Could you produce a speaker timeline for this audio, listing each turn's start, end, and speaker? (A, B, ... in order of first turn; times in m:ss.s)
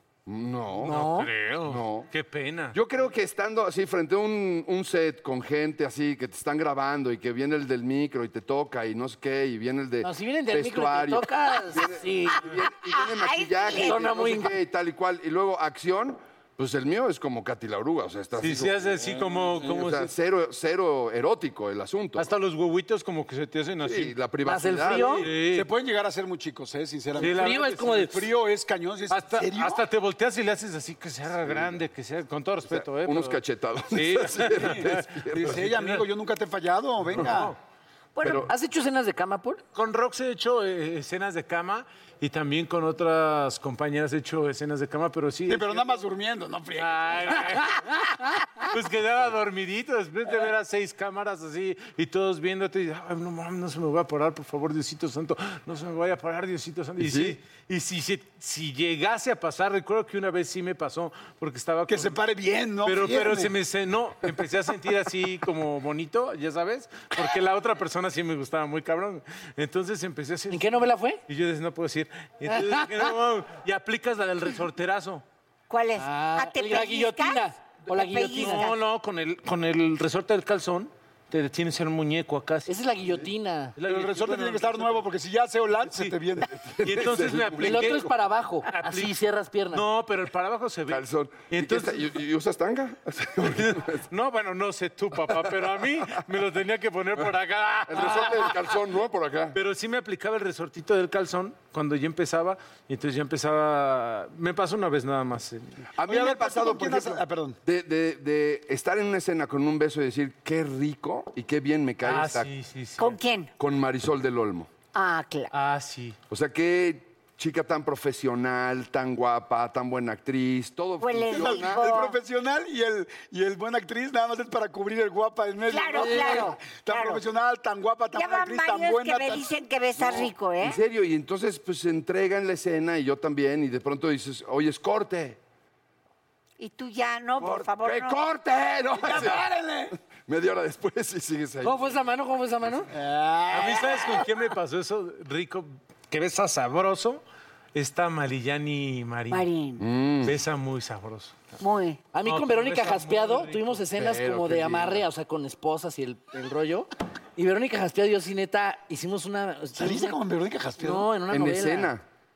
0:00.3-0:01.0 A
0:00.8-0:02.8 B
0:00.8-0:01.3 C
0:01.6-0:02.1 A
0:02.7-0:22.3 A
0:10.0-0:12.4 C
0:12.5-0:14.0 D
0:13.8-0:14.6 C
0:18.4-0:20.1 B
0:22.2-0:24.1 B
0:23.8-0:25.3 A
0:24.5-0:25.3 C
0:25.2-0:25.7 B
0:25.4-0:29.8 E
0:27.2-0:28.2 B
0:27.2-0:28.2 C
0:29.1-0:33.4 B
0:31.4-0:31.8 A
0:32.6-0:35.6 A
0:33.9-0:36.0 B
0:34.5-0:37.6 E
0:37.1-0:37.6 B
0:38.2-0:38.5 D
0:38.2-0:38.5 A
0:38.4-0:39.6 C
0:39.8-0:46.0 B
0:45.5-0:47.5 E
0:46.8-1:02.2 B
0:57.0-0:57.4 A
1:01.9-1:03.5 E
1:02.8-1:15.2 B
1:10.5-1:11.2 C
1:12.5-1:13.1 C
1:15.7-1:18.8 D
1:16.0-1:18.7 C
1:18.3-1:22.7 B
1:22.7-1:23.8 C
1:23.8-1:25.1 B
1:23.8-1:26.5 E
1:26.5-1:28.1 A
1:26.8-1:28.1 B
1:27.6-1:29.8 C
1:28.7-1:29.2 B
1:29.7-1:32.0 B
1:30.9-1:34.1 A
1:33.6-1:38.7 B
1:37.9-1:39.6 A
1:39.5-1:45.8 B
1:46.0-1:52.5 A
1:46.1-1:47.6 E
1:52.0-1:53.2 B
1:53.0-1:53.5 D
1:53.6-1:54.7 A
1:54.9-1:55.5 D
1:55.5-1:56.2 B
1:56.3-2:01.9 A
2:01.0-2:02.2 D
2:01.3-2:09.4 E
2:05.7-2:07.2 D
2:05.9-2:06.6 C
2:08.2-2:10.8 D
2:10.0-2:15.4 A
2:16.6-2:18.2 D
2:17.4-2:19.4 A
2:19.0-2:19.9 E
2:20.3-2:21.9 A
2:21.6-2:22.9 C
2:22.9-2:24.2 E
2:23.5-2:27.2 B
2:27.7-2:29.5 B
2:29.3-2:29.8 D
2:29.8-2:30.4 A
2:30.2-2:31.6 B
2:31.6-2:32.0 D
2:32.1-2:40.2 C
2:32.2-2:33.8 B
2:33.9-2:35.1 A
2:39.8-2:41.1 E
2:40.8-2:41.9 C
2:41.3-2:42.0 A